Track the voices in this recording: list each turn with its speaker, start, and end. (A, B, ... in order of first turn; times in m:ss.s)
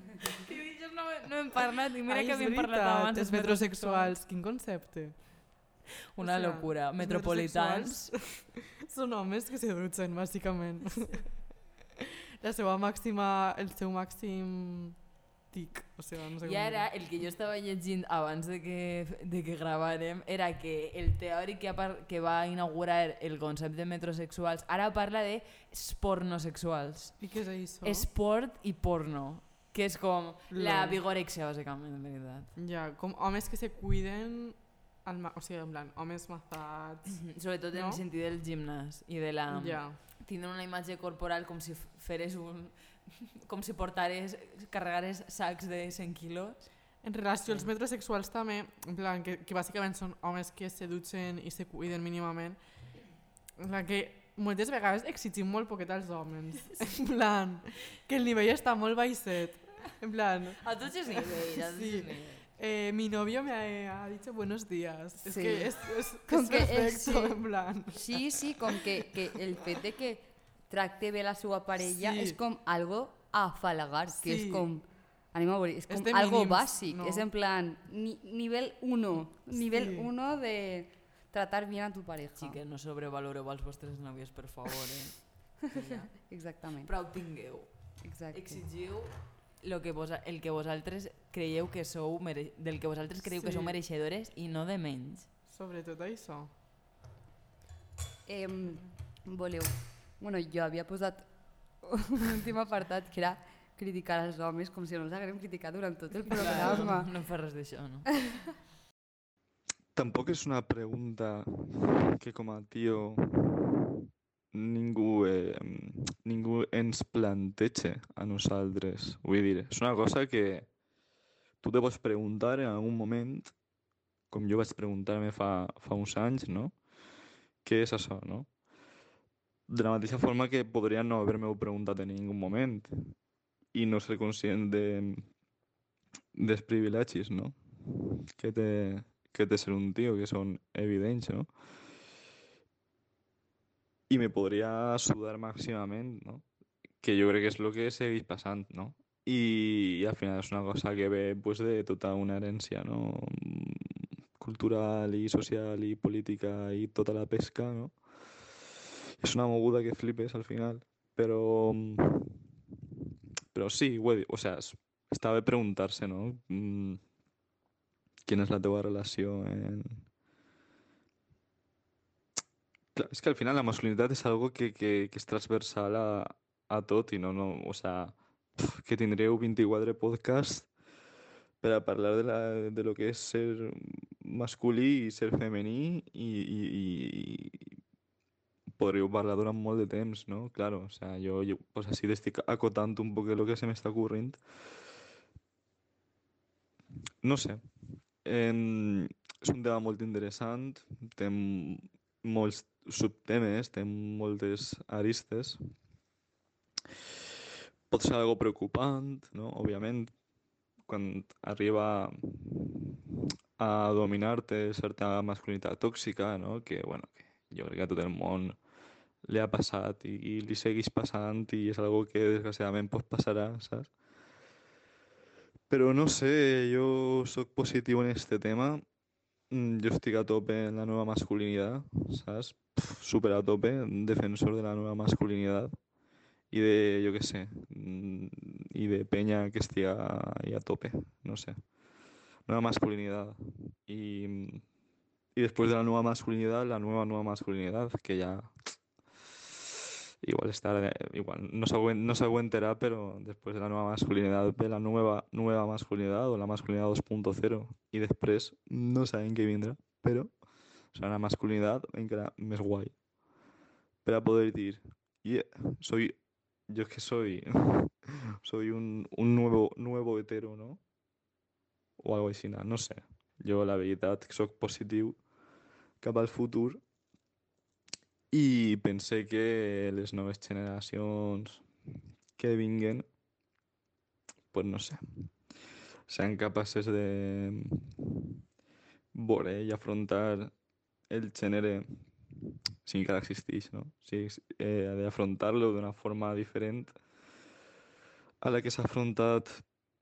0:00.4-0:04.2 A
0:02.1-0:11.7 B
0:06.1-0:08.1 A
0:12.4-0:17.0 B
0:16.4-0:32.5 A
0:27.2-0:28.1 B
0:30.5-0:31.0 B
0:32.6-0:38.0 B
0:37.2-0:47.7 A
0:39.5-0:40.0 B
0:47.0-0:52.6 B
0:53.6-1:08.7 B
1:00.6-1:02.4 A
1:05.2-1:22.6 C
1:11.9-1:12.4 B
1:14.1-1:14.7 B
1:15.9-1:17.2 B
1:19.6-1:20.1 B
1:22.4-1:35.3 A
1:25.7-1:27.4 C
1:28.0-1:28.7 C
1:33.2-1:33.8 B
1:35.4-1:36.5 B
1:38.2-1:47.1 C
1:46.3-1:48.3 A
1:49.9-1:53.9 D
1:54.5-2:00.7 D
2:01.6-2:03.5 D
2:04.3-2:06.8 D
2:07.6-2:08.5 D
2:09.7-2:13.2 D
2:13.7-2:15.3 D
2:16.3-2:21.5 D
2:24.1-2:26.4 D
2:27.0-2:38.0 D
2:39.2-2:42.4 D
2:43.5-2:47.0 D
2:48.2-2:50.1 D
2:52.9-3:00.7 D
3:01.6-3:07.8 D
3:08.7-3:14.4 D
3:17.2-3:25.7 D
3:27.9-3:30.2 D
3:30.8-3:33.0 D
3:33.6-3:38.6 D
3:39.2-3:43.9 D
3:45.7-3:48.8 D
3:49.5-3:55.8 D
3:56.5-4:01.6 D
4:02.4-4:04.6 D
4:05.3-4:08.8 D
4:10.2-4:20.4 D
4:20.9-4:23.0 D
4:24.0-4:30.8 D
4:32.0-4:35.2 D
4:36.0-4:36.8 D
4:38.3-4:41.6 D
4:42.4-4:43.1 D
4:44.5-4:45.4 D
4:46.1-4:48.1 D
4:49.1-4:50.5 D
4:51.1-4:57.0 D
4:58.4-4:59.7 D